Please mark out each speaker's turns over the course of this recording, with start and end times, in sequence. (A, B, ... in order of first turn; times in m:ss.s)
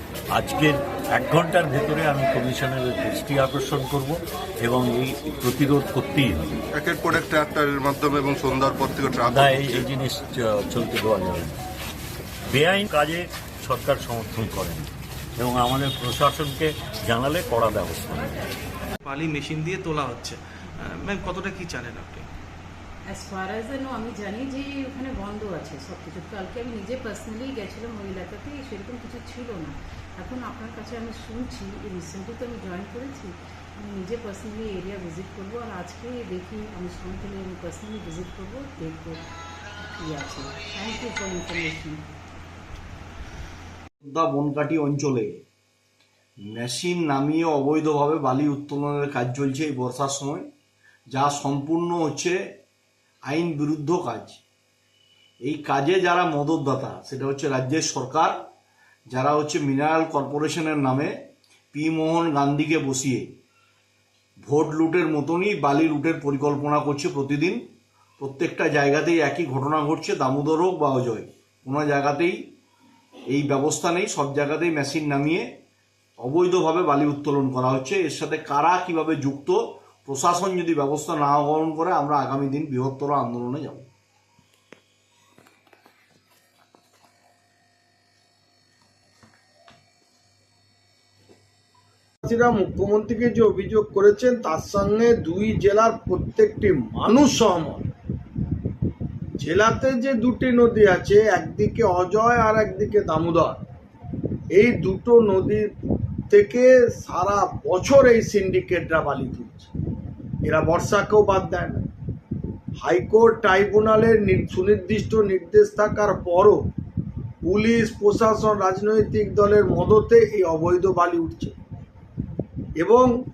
0:00.3-0:06.6 A
0:06.7-0:09.9 B
0:09.2-0:11.6 A
0:12.5-0:18.5 A
0:19.0-0:22.3 C
0:23.1-0:39.2 D
0:40.0-0:42.0 D
0:44.0-0:45.4 E
0:46.5-0:50.5 E
0:51.1-0:52.6 E
0:53.3-0:54.4 E
0:55.4-0:58.5 E
0:59.1-1:03.3 E
1:04.4-1:07.6 E
1:08.2-1:12.5 E
1:13.3-1:15.6 E
1:16.2-1:23.9 E
1:32.2-1:37.9 F
1:39.4-1:43.6 F
1:44.6-1:45.7 F
1:46.3-1:49.7 F
1:50.4-1:51.8 F
1:52.8-1:56.6 F
1:57.4-2:01.6 F
2:02.8-2:03.1 F